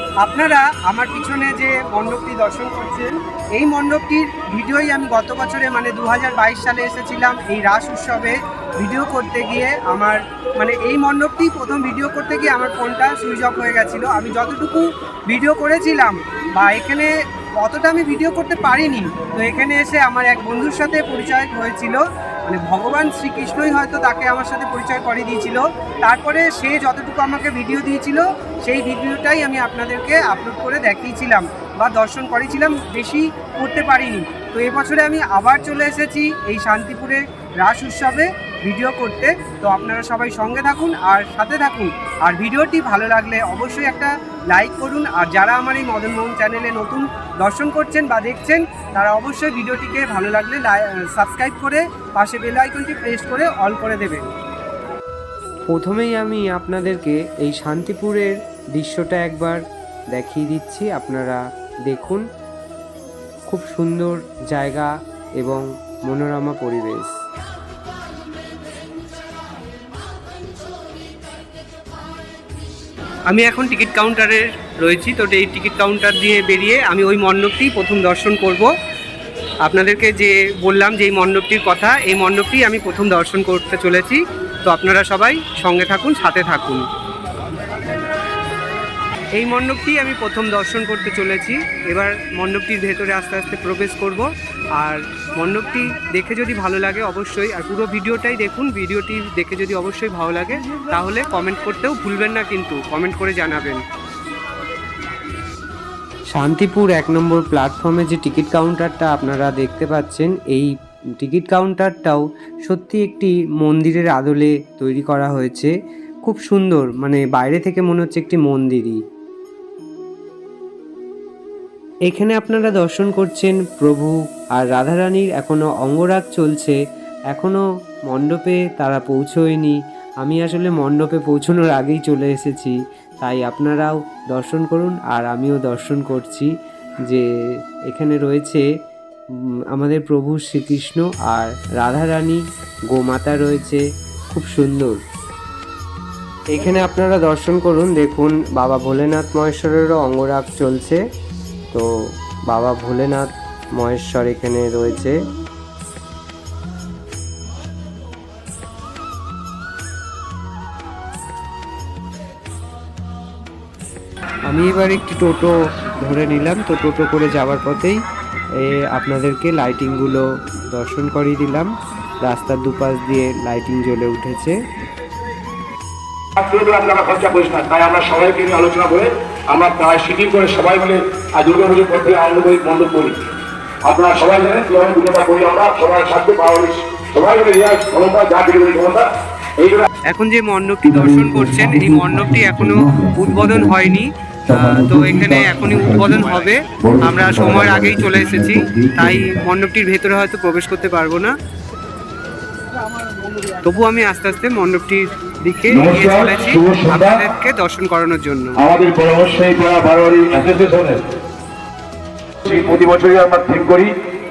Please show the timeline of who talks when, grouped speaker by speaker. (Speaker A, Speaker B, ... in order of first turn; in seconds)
Speaker A: 0.2-54.3, 73.3-78.7, 79.6-86.9, 89.3-103.8, 190.1-198.6, 199.2-201.4, 203.6-208.6
Speaker B: 55.7-62.2, 63.5-67.1, 106.3-115.7, 116.3-119.0, 122.1-126.8, 127.3-136.5, 137.9-138.7, 139.3-145.0, 146.5-151.0, 152.5-155.2, 164.5-168.0, 168.6-174.6, 192.3-192.7, 195.9-196.5, 197.3-197.6, 198.2-199.2
Speaker C: 176.4-183.2, 183.8-189.1, 189.6-189.9, 190.8-193.9, 194.5-199.4, 205.7-207.3, 208.6-211.0, 212.5-213.9